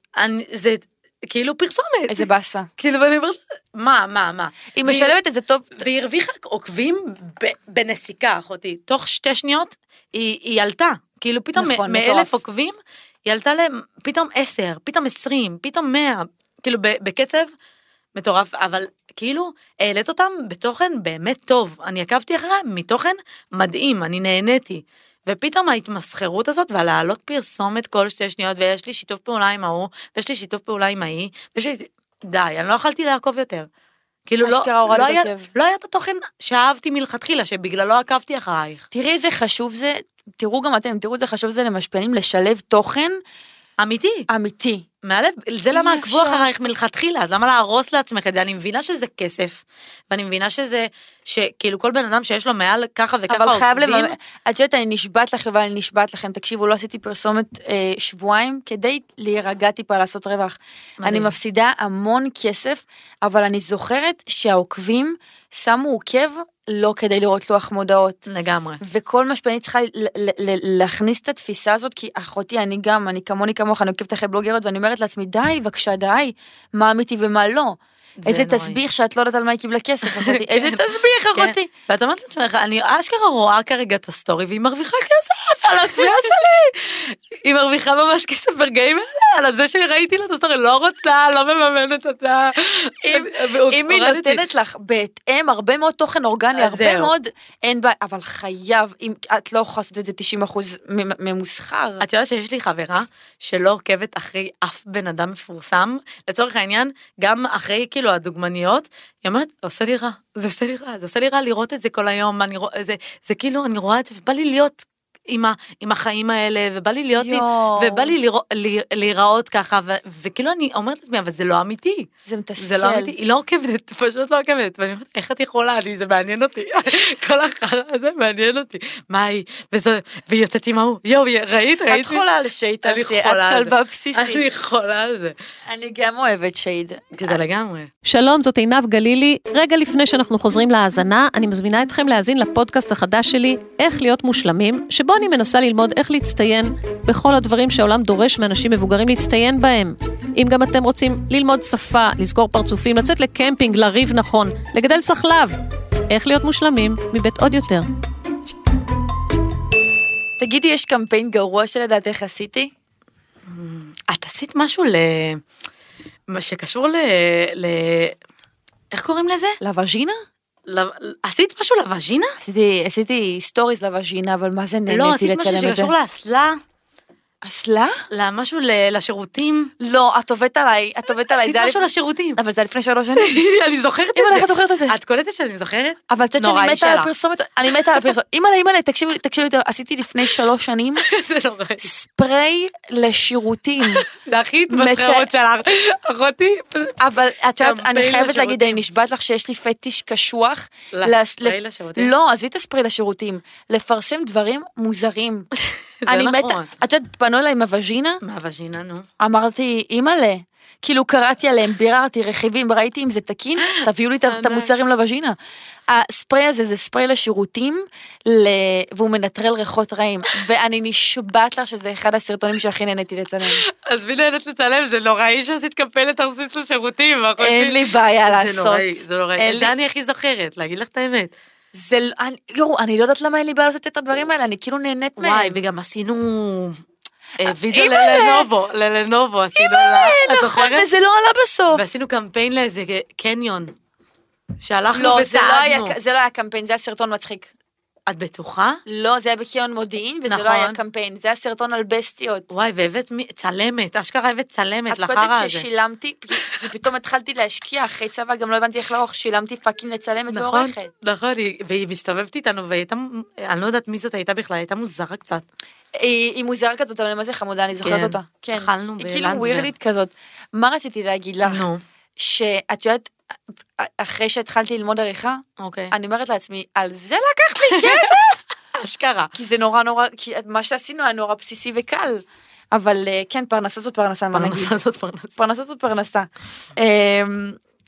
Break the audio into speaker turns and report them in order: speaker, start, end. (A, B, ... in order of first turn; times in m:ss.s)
0:00.2-0:05.1 A
0:02.1-0:02.7 B
0:04.8-0:05.8 B
0:05.8-0:17.5 A
0:11.6-0:12.4 B
0:18.1-0:33.7 A
0:34.3-0:38.8 A
0:34.4-0:35.5 B
0:38.9-0:43.2 B
0:43.8-0:44.2 A
0:44.3-0:44.8 B
0:45.0-0:54.1 A
0:45.7-0:46.5 B
0:53.3-1:08.2 B
1:01.0-1:01.3 A
1:08.3-1:08.8 A
1:08.8-1:21.7 B
1:18.2-1:18.8 A
1:20.0-1:34.4 A
1:25.7-1:26.3 B
1:33.0-1:42.0 B
1:36.6-1:37.1 A
1:42.0-2:02.1 A
1:57.1-1:58.1 B
2:02.2-2:03.1 B
2:02.6-2:12.2 A
2:11.9-2:14.4 B
2:12.8-2:15.3 A
2:15.7-2:17.3 B
2:17.1-2:17.9 A
2:18.0-2:37.9 C
2:40.4-2:42.7 B
2:43.5-2:45.4 A
2:46.3-2:48.2 A
2:48.9-2:49.6 A
2:49.6-2:50.2 B
2:50.6-2:52.4 A
2:52.4-2:55.9 B
2:54.9-2:56.6 A
2:57.4-2:58.0 B
2:58.1-2:59.7 A
2:59.8-3:03.4 B
3:01.2-3:02.4 A
3:03.1-3:07.1 A
3:04.1-3:05.0 B
3:06.1-3:11.0 B
3:07.7-3:08.1 A
3:11.0-3:11.9 A
3:11.8-3:14.1 B
3:13.8-3:17.0 A
3:14.7-3:15.3 B
3:17.0-3:25.5 B
3:17.6-3:18.8 A
3:20.9-3:22.1 A
3:25.5-3:26.7 A
3:26.0-3:28.2 B
3:28.2-3:29.0 A
3:29.2-3:35.3 B
3:33.6-3:34.7 A
3:35.9-3:43.6 B
3:43.4-3:51.3 A
3:47.4-3:49.7 B
3:51.7-3:55.6 B
3:55.2-3:56.8 A
3:57.4-4:00.9 A
3:57.4-3:58.5 B
3:59.6-4:01.8 B
4:01.7-4:03.7 A
4:04.6-4:06.0 A
4:04.9-4:07.5 B
4:08.1-4:08.8 A
4:08.8-4:12.5 B
4:10.3-4:10.8 A
4:12.5-4:15.6 A
4:14.9-4:20.9 B
4:20.3-4:25.4 A
4:25.9-4:31.6 B
4:27.8-4:29.7 A
4:31.4-4:31.8 A
4:32.2-4:33.1 B
4:33.8-4:38.4 B
4:35.6-4:35.9 A
4:37.7-4:38.2 A
4:38.7-4:39.3 A
4:39.3-4:44.7 B
4:44.3-4:45.4 A
4:45.4-4:47.6 B